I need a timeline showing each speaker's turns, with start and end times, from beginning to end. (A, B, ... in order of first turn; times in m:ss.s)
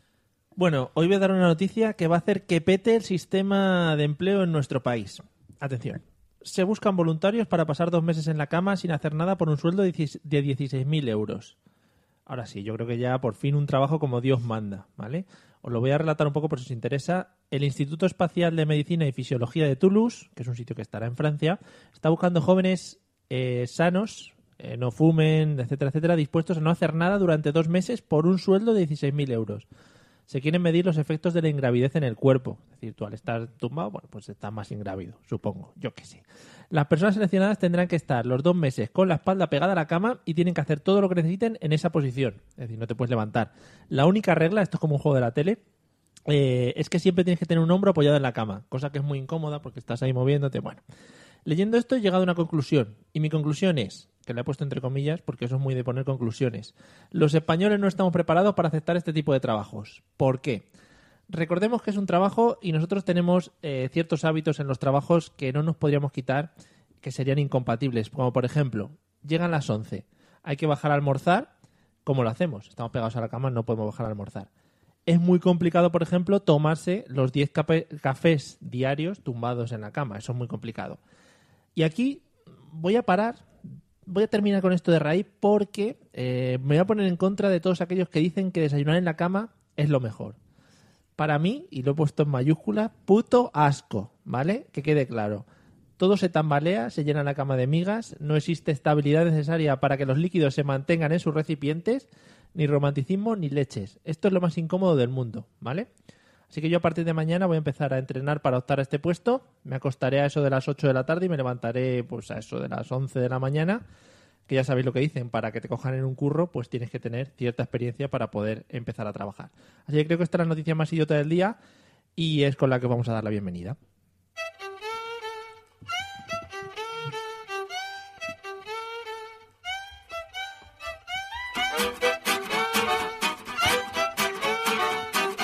0:00.6-0:11.5 A
0:12.3-0:29.6 A
0:30.3-0:45.6 A
0:46.3-0:50.8 A
0:51.4-1:00.6 A
1:01.3-1:06.5 A
1:07.0-1:11.5 A
1:12.0-1:14.5 A
1:15.1-1:21.0 A
1:21.8-1:23.4 A
1:24.0-1:30.4 A
1:31.2-1:35.4 A
1:36.0-1:45.9 A
1:46.5-1:53.8 A
1:54.5-2:01.6 A
2:02.2-2:03.8 A